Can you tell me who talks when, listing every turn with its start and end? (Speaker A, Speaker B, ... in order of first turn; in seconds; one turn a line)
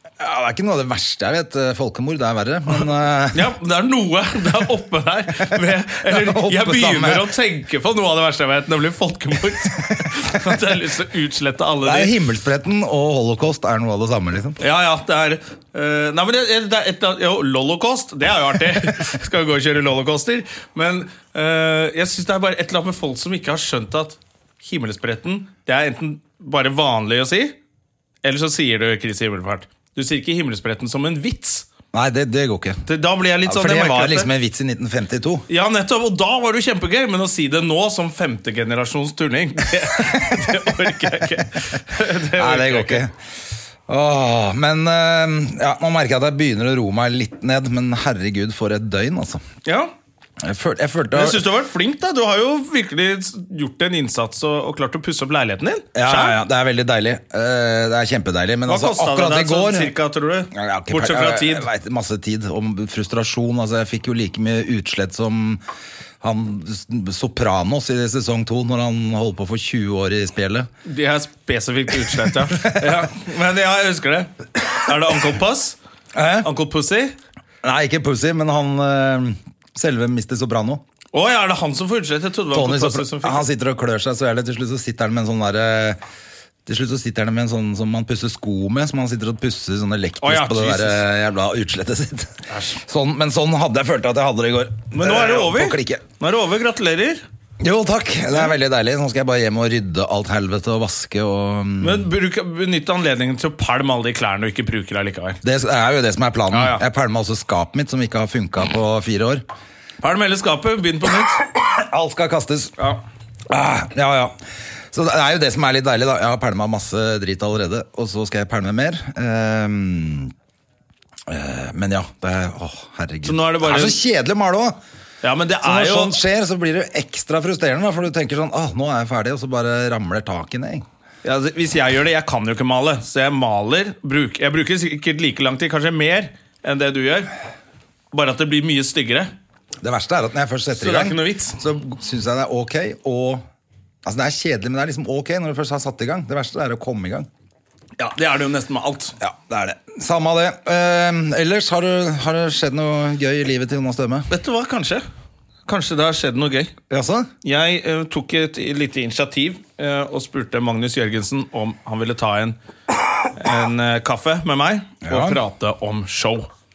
Speaker A: 0.2-3.5
Speaker B: 3.3-12.1
Speaker A: 6.1-7.3
Speaker A: 11.8-14.6
Speaker B: 14.6-27.6
Speaker B: 28.2-31.7
Speaker A: 31.9-32.8
Speaker B: 32.9-34.3
Speaker A: 33.5-35.5
Speaker B: 35.5-43.0
Speaker A: 42.4-43.1
Speaker A: 43.9-49.4
Speaker B: 49.6-49.9
Speaker A: 50.4-51.5
Speaker B: 51.1-56.4
Speaker A: 56.0-59.9
Speaker B: 58.7-61.7
Speaker A: 60.5-65.6
Speaker A: 66.2-70.7
Speaker B: 70.8-75.8
Speaker A: 72.2-73.1
Speaker A: 76.1-76.5
Speaker B: 76.4-77.2
Speaker A: 77.6-80.8
Speaker B: 81.1-83.5
Speaker A: 82.5-86.0
Speaker A: 86.7-96.0
Speaker B: 90.2-91.0
Speaker B: 92.5-92.8
Speaker B: 94.9-97.2
Speaker A: 97.6-102.1
Speaker B: 101.8-105.4
Speaker A: 105.4-109.4
Speaker B: 106.5-106.8
Speaker B: 110.0-111.4
Speaker A: 111.5-112.7
Speaker A: 113.5-114.3
Speaker A: 114.9-120.3
Speaker A: 121.3-124.8
Speaker B: 123.2-124.0
Speaker B: 125.2-126.2
Speaker A: 125.6-130.9
Speaker B: 131.2-137.3
Speaker B: 138.1-139.3
Speaker A: 139.8-143.4
Speaker B: 140.8-141.6
Speaker A: 144.1-147.3
Speaker B: 148.0-149.2
Speaker A: 149.2-154.3
Speaker B: 154.3-155.0
Speaker B: 155.7-156.7
Speaker A: 156.9-157.3
Speaker B: 157.4-162.6
Speaker B: 163.3-166.5
Speaker A: 165.0-165.4